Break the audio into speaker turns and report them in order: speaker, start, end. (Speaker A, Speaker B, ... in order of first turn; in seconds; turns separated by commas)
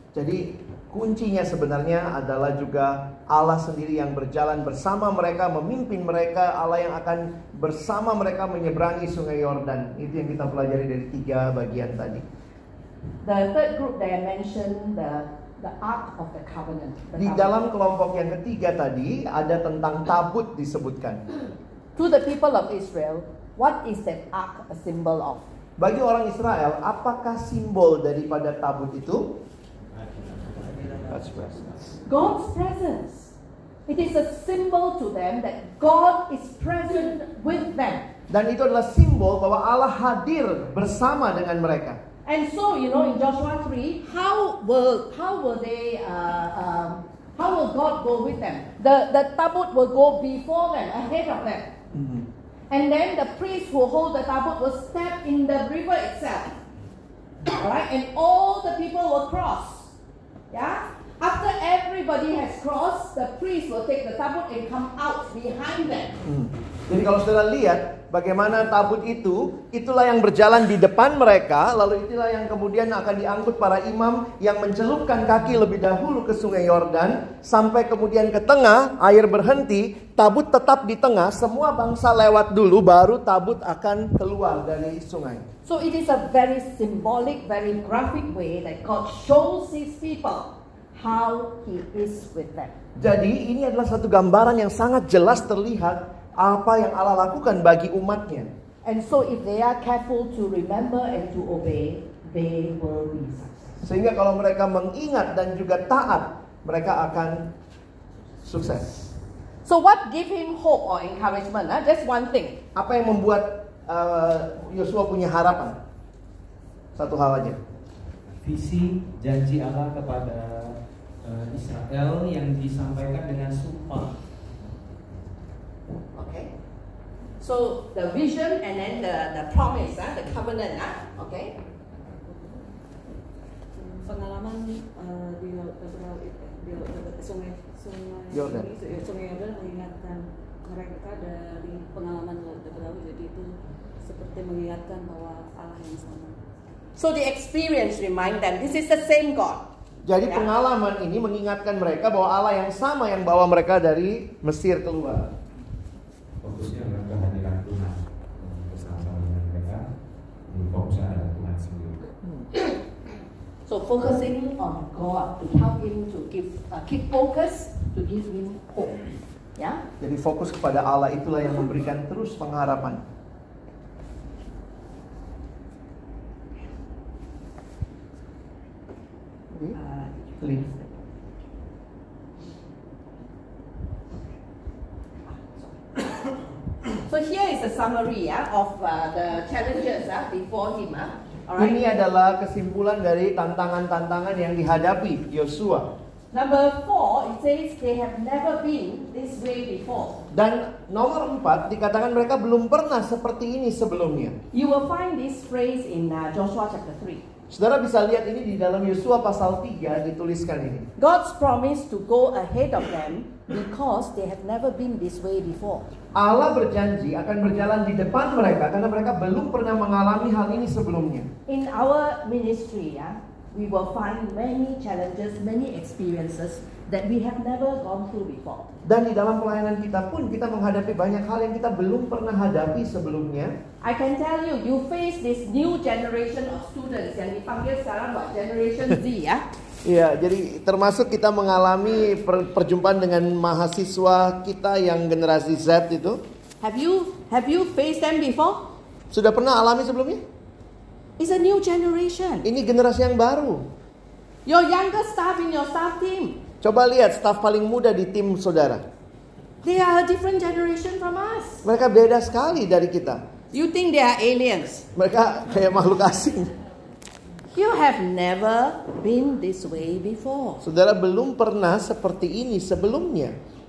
Speaker A: 0.1-12.2, Speaker B: 13.2-17.6, Speaker A: 17.2-21.2, Speaker B: 21.9-25.5, Speaker A: 25.8-29.4, Speaker A: 31.1-31.9, Speaker B: 32.0-33.3, Speaker B: 33.9-38.1, Speaker A: 38.3-42.0, Speaker B: 42.2-51.7, Speaker A: 51.9-52.2, Speaker B: 52.7-56.6, Speaker B: 57.5-59.9, Speaker B: 60.5-66.2, Speaker A: 66.2-85.4, Speaker B: 85.6-92.7, Speaker A: 93.0-98.5, Speaker B: 98.8-103.8, Speaker A: 103.8-107.5, Speaker A: 108.4-109.0, Speaker B: 109.6-112.6, Speaker A: 112.7-115.8, Speaker A: 116.9-117.6, Speaker C: 118.4-124.2, Speaker B: 126.1-126.5, Speaker B: 127.4-131.6, Speaker D: 133.8-146.4, Speaker A: 138.3-138.7, Speaker B: 146.9-149.7, Speaker A: 150.0-155.3, Speaker B: 150.2-150.5, Speaker E: 156.4-159.9, Speaker E: 160.5-162.1, Speaker B: 163.7-169.0, Speaker B: 169.6-169.8, Speaker A: 170.0-173.0, Speaker B: 179.7-180.9, Speaker B: 185.3-186.3, Speaker B: 186.9-191.8, Speaker A: 191.6-195.9, Speaker B: 196.3-200.2, Speaker A: 200.3-204.4, Speaker B: 204.5-207.2, Speaker A: 207.5-210.9, Speaker B: 211.0-215.9, Speaker A: 216.1-221.3, Speaker B: 221.5-228.7, Speaker A: 228.8-233.6, Speaker B: 233.8-239.4, Speaker A: 239.8-246.2, Speaker B: 246.6-248.7, Speaker A: 249.1-250.2, Speaker B: 251.2-252.4, Speaker A: 252.4-253.7, Speaker B: 254.4-256.4, Speaker A: 256.6-258.8, Speaker B: 259.6-261.6, Speaker A: 261.6-263.2, Speaker B: 263.5-264.9, Speaker A: 264.9-266.5, Speaker B: 267.5-270.6, Speaker A: 270.6-273.4